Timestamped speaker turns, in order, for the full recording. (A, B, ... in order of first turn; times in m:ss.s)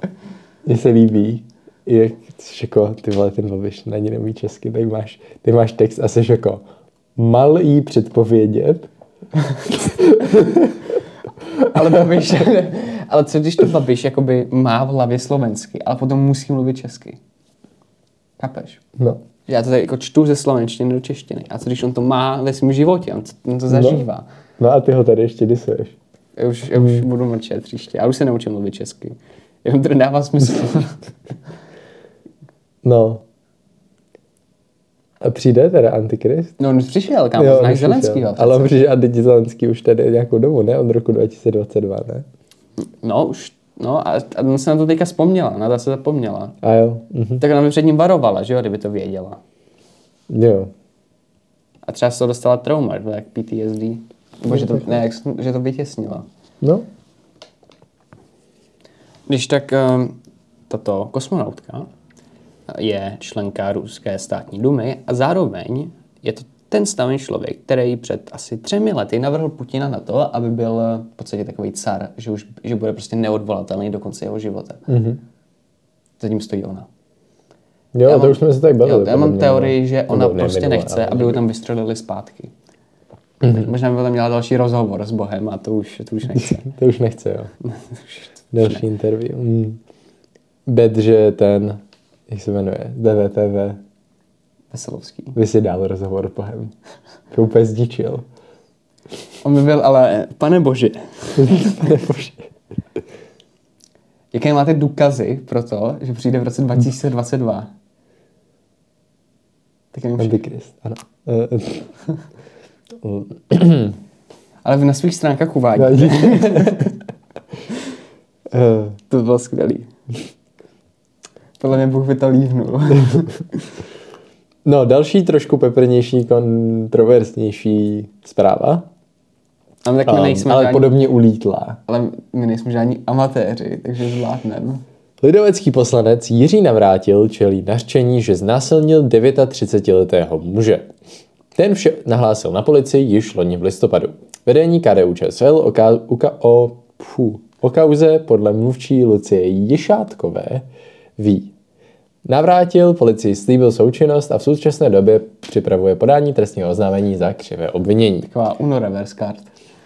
0:00.6-0:06.6 A
0:07.2-0:08.9 A
0:09.7-0:10.8 A
0:11.6-0:17.2 B
0:18.4-0:18.8 B
0:19.5-0:24.3 B
0:23.7-0:24.0 A
0:24.6-0:26.0 A
0:26.4-0:31.2 B
0:26.8-0:27.0 A
0:32.8-0:33.2 A
0:35.2-0:36.6 A
0:36.6-0:38.8 B
0:37.4-0:42.2 A
0:42.8-0:46.6 B
0:46.6-0:47.4 A
0:47.4-0:49.4 B
0:50.3-0:50.7 A
0:51.8-0:56.2 B
0:54.5-0:54.8 A
0:59.3-1:00.2 B
1:00.7-1:01.9 B
1:02.7-1:14.9 B
1:14.9-1:15.2 A
1:16.2-1:16.9 B
1:17.9-1:21.4 A
1:18.0-1:22.5 B
1:23.4-1:26.7 B
1:23.4-1:23.7 A
1:26.4-1:27.5 A
1:27.7-1:28.8 B
1:28.5-1:29.8 A
1:30.6-1:33.8 A
1:34.7-1:35.4 B
1:35.3-1:36.7 A
1:37.3-1:38.2 A
1:39.4-1:42.0 B
1:41.4-1:42.4 A
1:44.3-1:47.7 B
1:49.9-1:50.4 B
1:50.2-1:52.0 A
1:53.0-1:54.0 A
1:54.6-1:57.0 B
1:55.8-1:56.9 A
1:58.5-1:59.0 A
1:59.1-1:59.9 B
2:01.6-2:03.7 B
2:04.6-2:08.9 A
2:09.8-2:11.0 B
2:10.0-2:11.8 A
2:11.9-2:14.8 B
2:15.2-2:20.9 A
2:21.6-2:30.6 A
2:31.2-2:31.5 A
2:32.2-2:38.3 A
2:38.2-2:39.5 B